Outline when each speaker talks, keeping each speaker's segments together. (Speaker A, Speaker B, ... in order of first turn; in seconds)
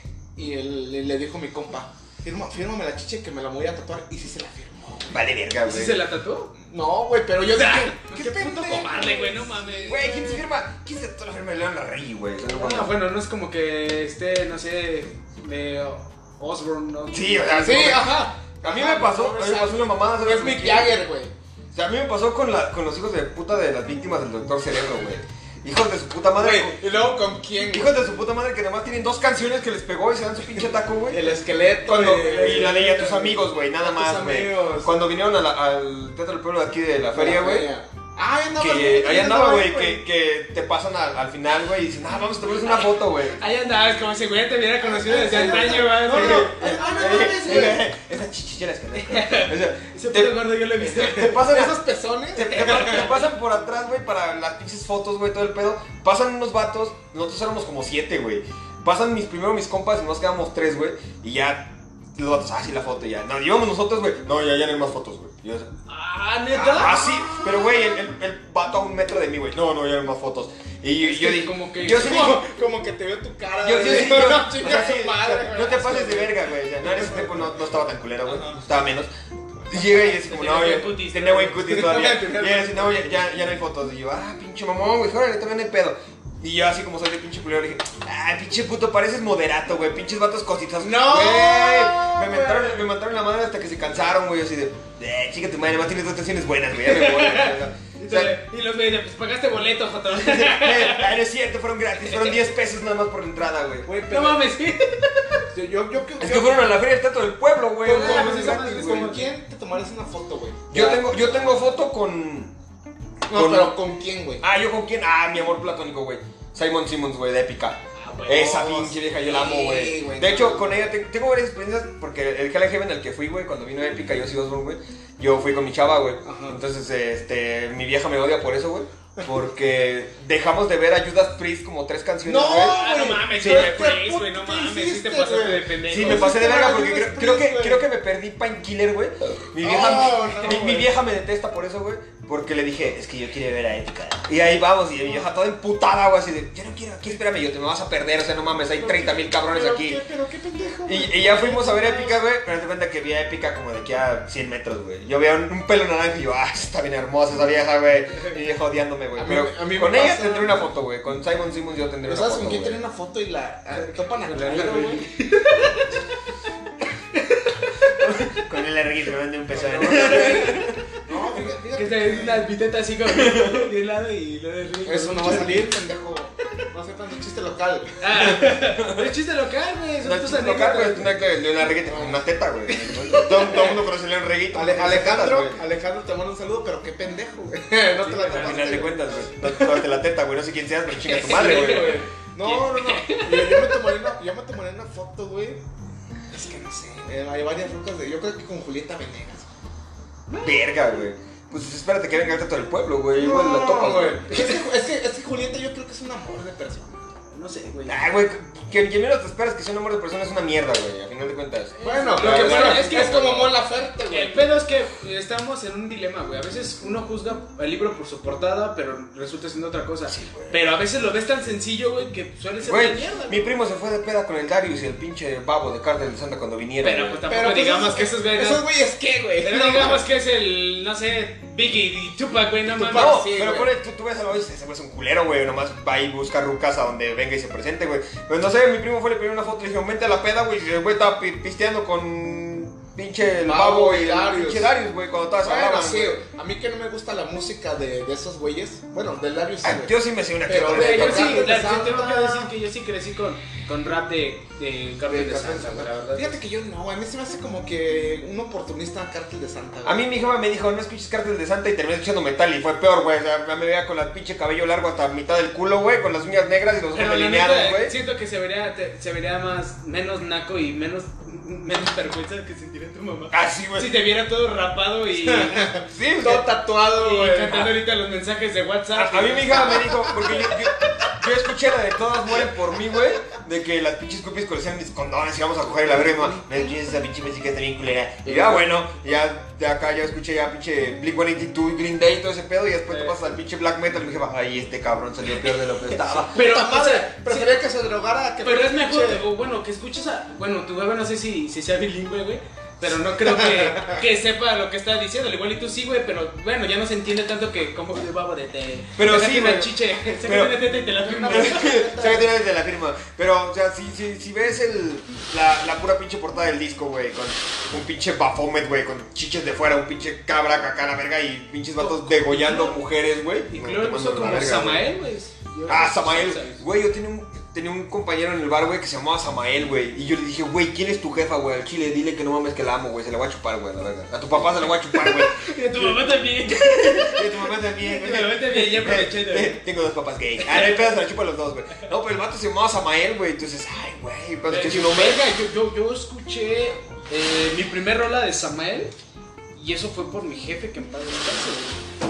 Speaker A: 0.4-5.2, 6.5-8.1, 8.8-10.0, 17.6-21.3, 26.4-27.9, 31.1-35.0, 37.1-40.0, 44.8-47.8, 50.8-53.1, 67.0-67.5, 71.9-77.4, 81.6-83.2, 90.8-92.8, 103.8-104.5, 105.5-106.8, 107.8-111.7, 113.3-114.5, 118.4-120.8, 126.2-126.6, 132.2-137.9, 139.6-140.9, 148.8-152.1, 159.2-160.7, 162.1-165.1, 169.5-172.5, 174.8-178.4, 181.8-183.7, 184.5-189.8, 191.1-195.6, 196.3-199.5, 203.2-207.0, 211.8-214.5, 227.3-230.0, 232.7-233.7, 243.5-244.7, 245.4-252.5, 255.1-260.0, 275.1-277.7, 279.5-280.1, 286.1-286.4, 288.2-288.6, 296.3-299.2, 303.0-304.0, 311.0-312.3
Speaker B: 5.1-6.0, 8.1-12.9, 17.1-21.0, 21.7-26.8, 27.7-31.3, 31.8-37.7, 38.6-43.4, 45.2-51.8, 52.3-65.7, 66.5-72.4, 73.6-79.1, 79.7-98.3, 100.1-103.9, 106.2-109.1, 110.7-112.5, 113.3-113.8, 114.4-132.8, 133.3-133.9, 135.9-150.0, 150.9-162.8, 168.0-170.7, 173.2-173.7, 178.4-179.1, 180.0-185.6, 188.3-192.0, 200.4-204.5, 207.9-213.6, 220.1-220.6, 222.6-227.2, 232.9-246.2, 249.6-251.5, 259.8-267.9, 273.3-273.9, 275.9-276.5, 278.9-296.3, 309.0-310.8, 311.3-324.9, 325.7-345.3
Speaker C: 5.6-6.5, 7.5-10.4, 12.4-18.1, 32.3-32.9, 42.7-47.3, 49.0-51.5, 52.6-53.2, 65.9-67.2, 71.1-72.4, 80.0-81.7, 96.8-101.2, 102.0-102.3, 104.0-105.4, 107.9-109.3, 118.0-118.8, 132.6-136.4, 163.8-166.0, 167.1-168.4, 169.8-175.7, 178.0-181.1, 187.9-188.9, 191.1-193.9, 200.3-200.6, 207.3-208.0, 211.8-223.4, 226.8-228.7, 229.4-233.3, 250.7-256.4, 266.9-275.8, 276.9-280.4, 296.2-297.6, 298.4-311.9, 321.8-322.8, 323.5-326.6, 334.8-339.6, 340.4-340.9, 344.5-348.9, 349.6-351.8